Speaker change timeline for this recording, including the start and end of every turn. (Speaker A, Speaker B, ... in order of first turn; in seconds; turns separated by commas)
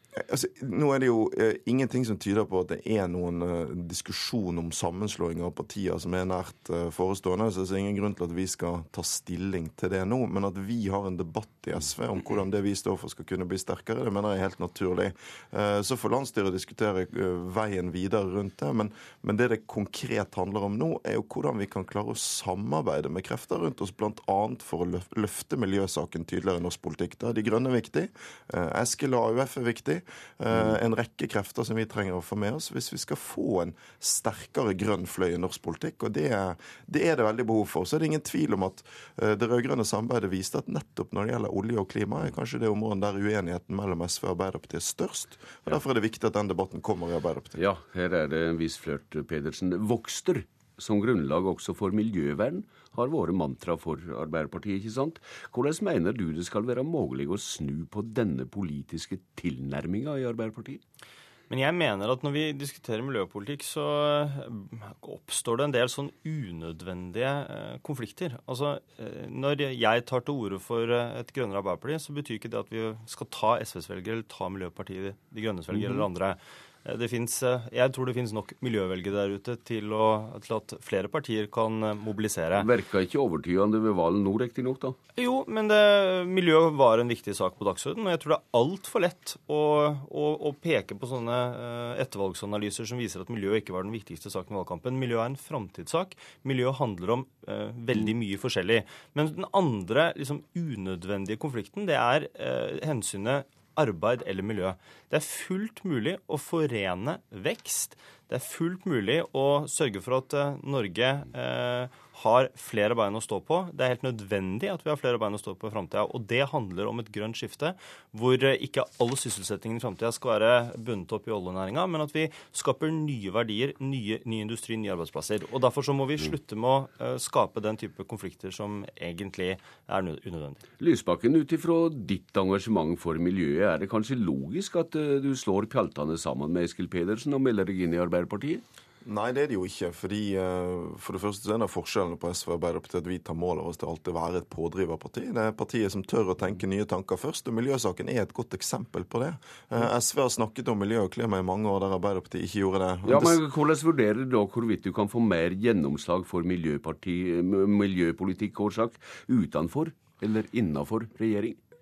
Speaker A: 0.3-47.5, Speaker B: 11.8-12.4, Speaker B: 47.5-60.8, Speaker C: 61.5-82.7, Speaker B: 75.7-76.1, Speaker B: 82.5-85.0, Speaker C: 85.2-130.6, Speaker B: 130.8-138.6, Speaker A: 139.1-153.4, Speaker B: 153.1-161.6